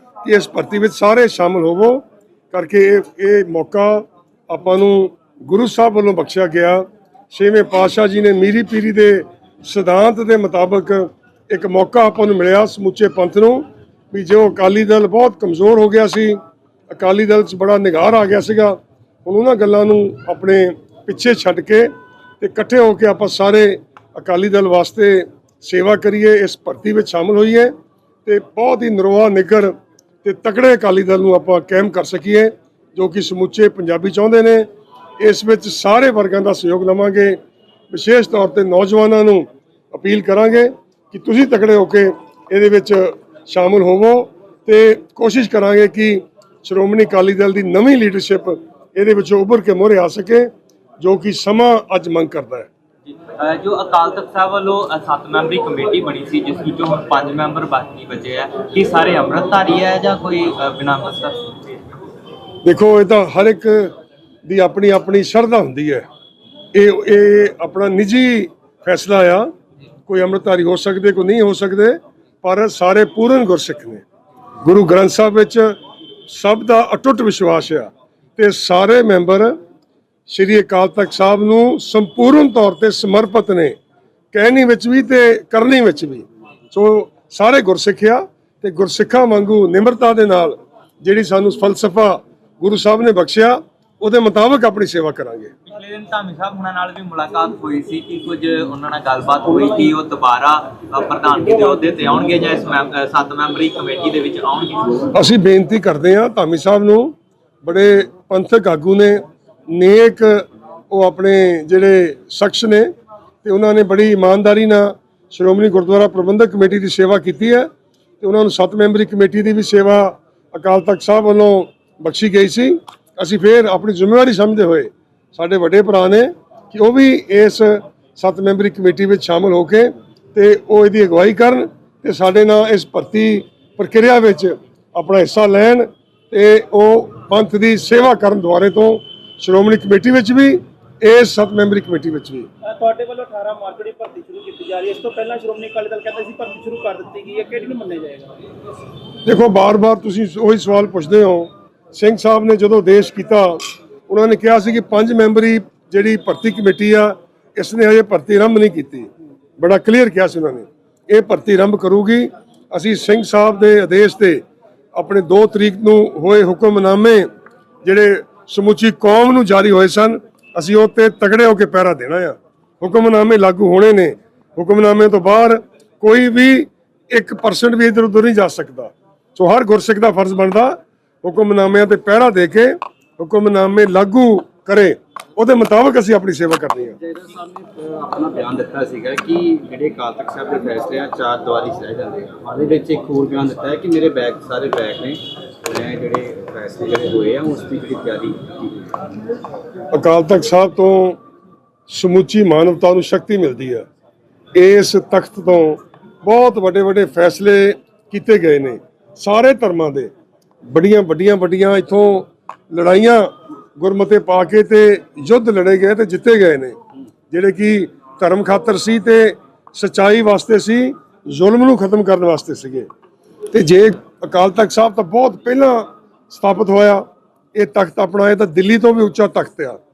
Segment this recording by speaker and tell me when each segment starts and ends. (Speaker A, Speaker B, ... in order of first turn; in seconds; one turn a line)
Speaker A: 0.2-27.7
Speaker A: 28.2-34.7
Speaker A: 35.2-37.4
Speaker A: 37.9-52.7
Speaker B: 53.1-61.6
Speaker A: 62.6-63.9
Speaker A: 64.5-66.0
Speaker A: 66.7-69.5
Speaker A: 70.1-74.0
Speaker A: 74.6-75.8
Speaker A: 76.3-79.5
Speaker A: 80.3-83.8
Speaker A: 84.3-95.5
Speaker B: 95.7-105.1
Speaker A: 105.1-112.9
Speaker A: 113.4-117.7
Speaker A: 118.2-142.5
Speaker C: 142.7-148.3
Speaker A: 149.2-164.4
Speaker A: 164.9-167.3
Speaker A: 167.8-187.0
Speaker D: 187.0-199.0
Speaker A: 199.9-201.2
Speaker A: 201.9-203.8
Speaker A: 204.5-210.1
Speaker A: 210.7-216.8
Speaker A: 217.3-222.9
Speaker A: 223.5-229.8